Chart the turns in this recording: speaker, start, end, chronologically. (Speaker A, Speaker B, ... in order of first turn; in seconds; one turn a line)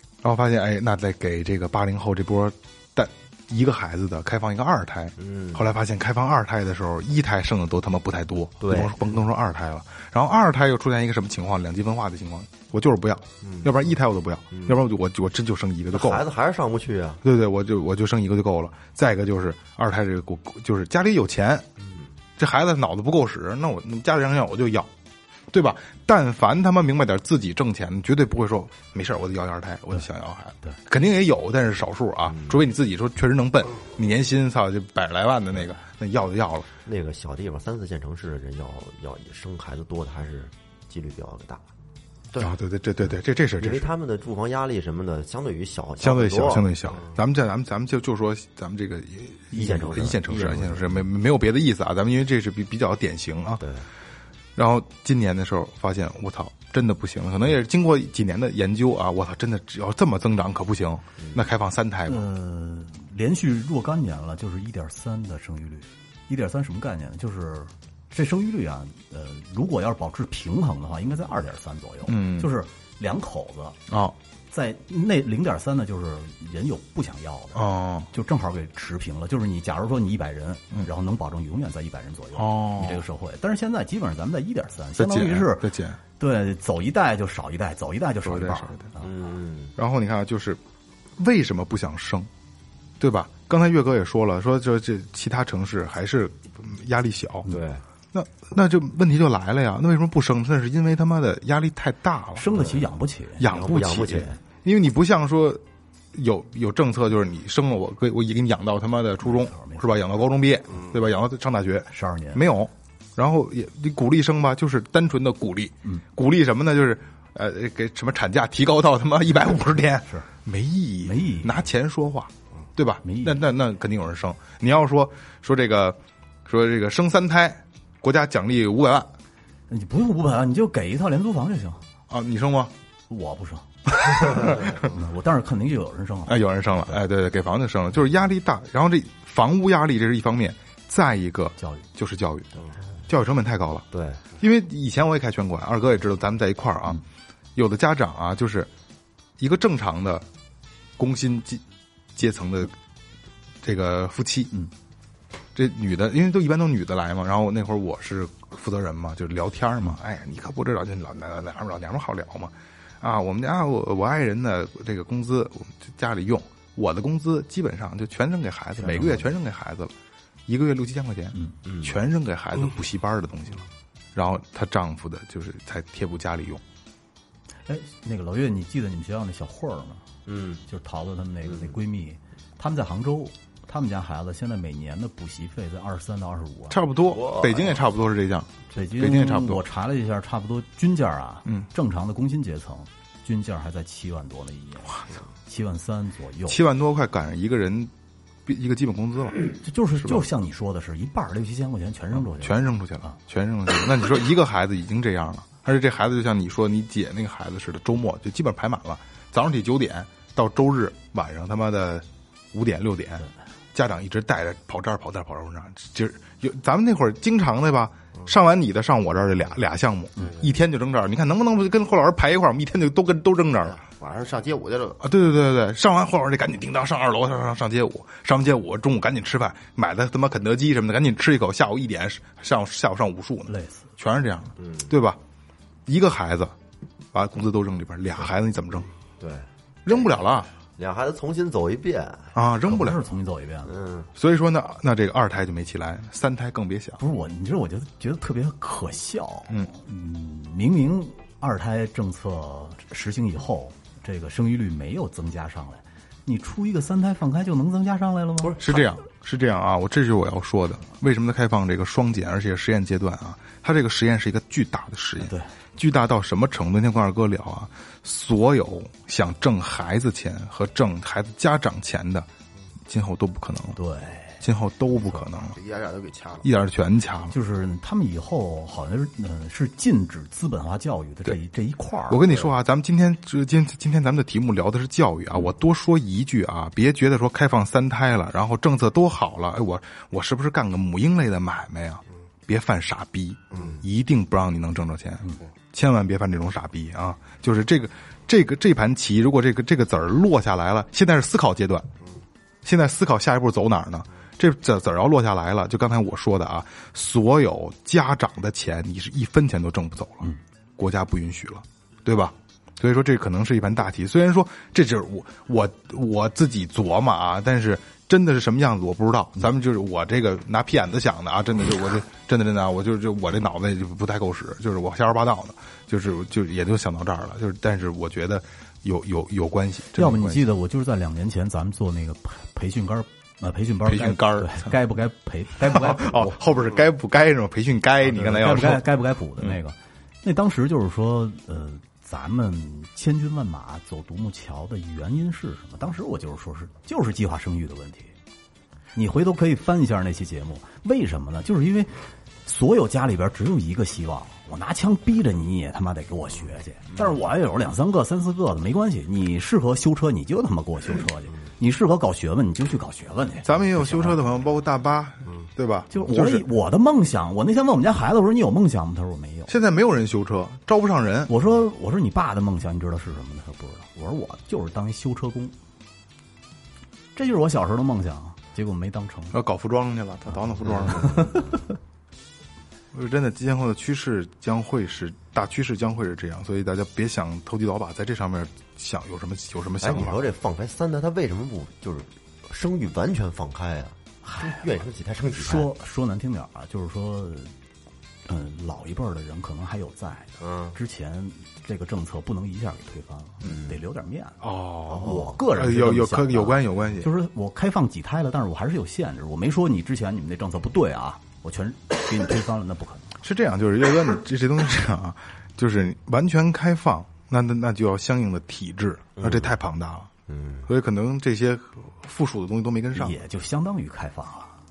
Speaker A: 0.2-16.2
Speaker B: 5.2-5.7
Speaker B: 8.6-9.1
Speaker B: 13.4-13.7
Speaker B: 14.5-14.8
Speaker B: 15.9-17.2
Speaker A: 17.2-21.7
Speaker B: 21.8-22.1
Speaker A: 22.4-24.9
Speaker A: 25.5-36.7
Speaker B: 32.3-32.6
Speaker B: 36.8-41.6
Speaker A: 42.4-43.9
Speaker B: 43.6-47.1
Speaker A: 46.0-53.6
Speaker B: 49.5-51.1
Speaker B: 53.6-53.9
Speaker A: 54.6-62.2
Speaker C: 62.1-73.8
Speaker A: 72.1-72.5
Speaker A: 73.9-74.2
Speaker C: 74.5-89.1
Speaker A: 77.5-78.1
Speaker A: 82.4-83.0
Speaker A: 85.0-86.0
Speaker A: 88.2-88.9
Speaker B: 89.0-89.7
Speaker A: 89.8-90.6
Speaker A: 91.2-92.3
Speaker A: 93.0-97.5
Speaker B: 97.5-97.8
Speaker A: 98.1-102.6
Speaker C: 102.4-104.3
Speaker B: 102.5-102.9
Speaker A: 103.4-105.6
Speaker B: 103.4-104.3
Speaker A: 106.1-129.1
Speaker C: 109.2-109.8
Speaker C: 111.9-112.4
Speaker C: 121.0-121.7
Speaker C: 123.0-123.4
Speaker C: 129.7-131.8
Speaker A: 132.1-132.7
Speaker C: 133.1-137.0
Speaker A: 134.1-134.9
Speaker A: 136.3-143.9
Speaker C: 141.6-141.9
Speaker B: 143.9-144.2
Speaker A: 144.4-147.0
Speaker A: 147.6-148.7
Speaker A: 149.4-150.2
Speaker A: 151.0-151.6
Speaker A: 152.2-152.8
Speaker A: 153.6-154.5
Speaker A: 155.6-169.9
Speaker C: 168.8-169.3
Speaker A: 170.5-176.6
Speaker B: 171.7-172.0
Speaker C: 177.7-180.1
Speaker B: 180.3-180.6
Speaker C: 180.7-186.8
Speaker A: 186.7-189.6
Speaker B: 187.1-187.9
Speaker C: 188.7-196.6
Speaker A: 196.5-197.9
Speaker A: 198.5-200.2
Speaker C: 199.6-203.1
Speaker A: 202.2-223.8
Speaker D: 223.6-225.0
Speaker A: 225.0-235.2
Speaker C: 233.5-233.9
Speaker B: 234.6-234.9
Speaker A: 235.9-236.6
Speaker A: 237.1-238.9
Speaker B: 239.2-239.5
Speaker A: 239.8-240.5
Speaker B: 240.8-242.3
Speaker A: 242.3-243.0
Speaker C: 242.7-243.7
Speaker B: 243.7-244.1
Speaker A: 244.2-247.0
Speaker C: 247.0-258.8
Speaker B: 258.4-258.8
Speaker A: 258.6-272.3
Speaker C: 265.2-265.5
Speaker A: 272.9-273.8
Speaker C: 273.8-274.4
Speaker A: 274.4-275.6
Speaker D: 275.6-276.5
Speaker A: 276.4-277.3
Speaker C: 277.3-282.5
Speaker A: 282.1-301.9
Speaker D: 293.5-293.8
Speaker A: 302.6-330.4
Speaker C: 329.9-336.4
Speaker A: 333.9-334.7
Speaker A: 335.7-338.9
Speaker C: 338.0-348.1
Speaker C: 348.9-364.2
Speaker A: 363.4-366.4
Speaker C: 365.9-369.5
Speaker A: 369.5-371.3
Speaker C: 371.3-375.6
Speaker C: 377.1-379.4
Speaker A: 379.3-381.4
Speaker B: 380.6-381.3
Speaker C: 380.7-381.7
Speaker A: 382.9-390.3
Speaker B: 389.8-395.7
Speaker C: 394.2-394.6
Speaker C: 395.3-397.5
Speaker C: 398.3-413.2
Speaker B: 400.4-400.8
Speaker B: 403.4-403.8
Speaker A: 404.4-407.1
Speaker B: 404.9-405.2
Speaker A: 413.2-420.1
Speaker B: 419.2-419.6
Speaker B: 420.3-420.7
Speaker A: 420.7-423.2
Speaker C: 422.9-424.6